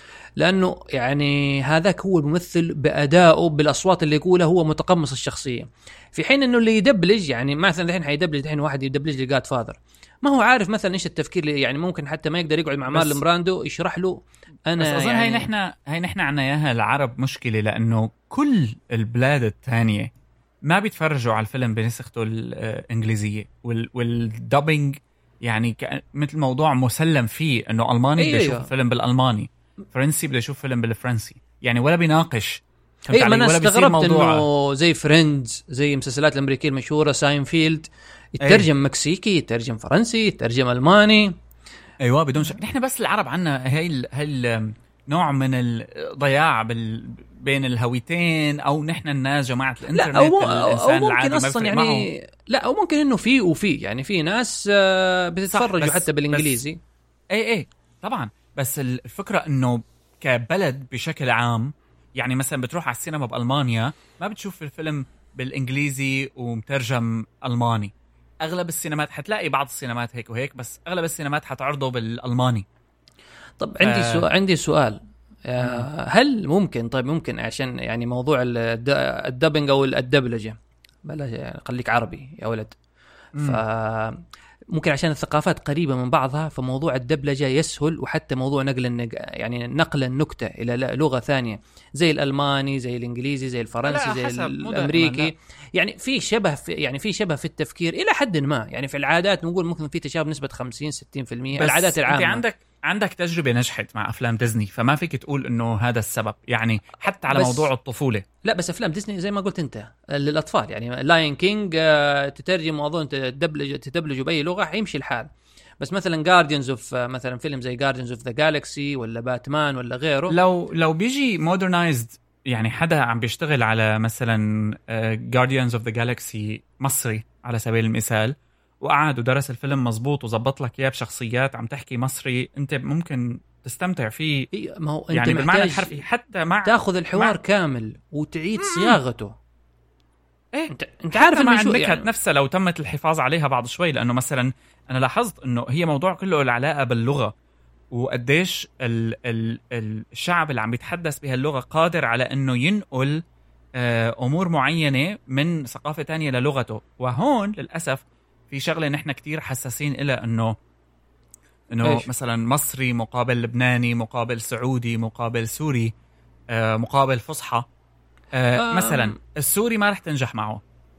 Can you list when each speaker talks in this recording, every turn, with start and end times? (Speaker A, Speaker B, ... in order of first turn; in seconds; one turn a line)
Speaker A: 0.4-15.5
Speaker B: 12.9-13.2
Speaker B: 14.8-20.1
Speaker B: 20.6-34.4
Speaker A: 28.2-28.7
Speaker A: 33.1-41.3
Speaker B: 38.4-38.7
Speaker B: 42.0-52.1
Speaker A: 49.9-56.8
Speaker B: 55.5-56.6
Speaker B: 57.3-72.6
Speaker A: 73.6-82.7
Speaker B: 73.8-74.2
Speaker B: 75.6-75.9
Speaker B: 83.3-83.6
Speaker A: 83.4-84.2
Speaker A: 84.7-102.4
Speaker B: 93.8-95.3
Speaker B: 101.6-108.2
Speaker A: 107.3-107.7
Speaker A: 108.4-120.3
Speaker B: 120.3-134.5
Speaker A: 134.5-136.0
Speaker B: 135.1-137.3
Speaker A: 136.6-139.3
Speaker B: 138.6-139.0
Speaker B: 140.5-147.3
Speaker A: 140.7-142.1
Speaker B: 147.9-153.2
Speaker B: 153.8-160.5
Speaker B: 161.7-165.9
Speaker B: 166.5-167.7
Speaker B: 168.3-170.6
Speaker A: 168.5-169.1